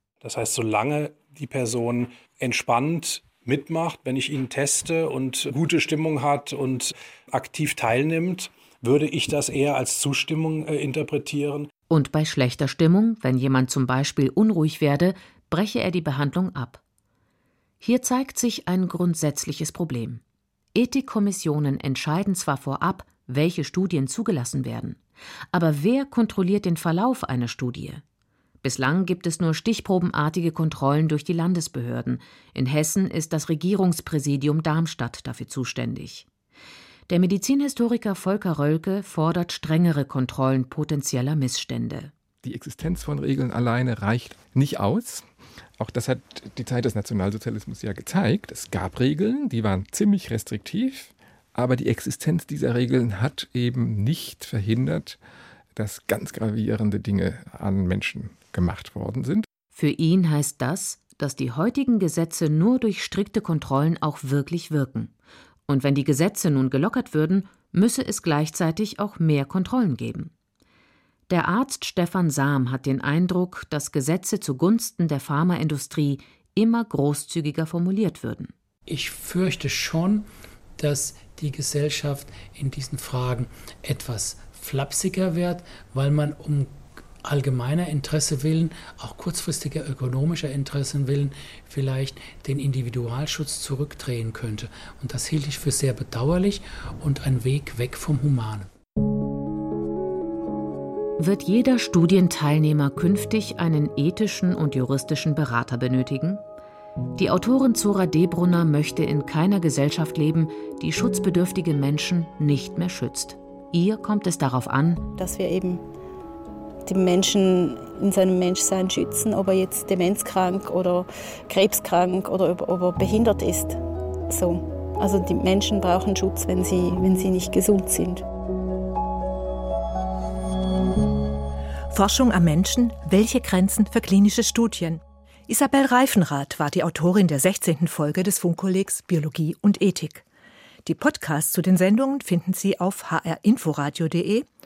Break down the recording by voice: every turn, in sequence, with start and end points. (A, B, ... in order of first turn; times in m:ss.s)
0:00.2-0:11.7 A
0:11.9-0:16.8 B
0:17.8-0:20.2 B
0:20.7-0:25.0 B
0:25.5-0:28.0 B
0:28.6-0:36.2 B
0:37.1-0:42.1 B
0:42.4-0:45.3 C
0:45.8-0:55.2 C
0:55.8-0:59.4 C
0:59.7-1:05.1 B
1:05.7-1:10.3 B
1:11.3-1:18.5 B
1:18.9-1:20.3 D
1:20.8-1:38.7 D
1:41.2-1:46.4 B
1:47.2-1:55.1 B
1:55.2-1:55.8 E
1:56.8-2:03.8 E
2:04.3-2:08.2 E
2:11.9-2:20.2 F
2:20.8-2:24.4 F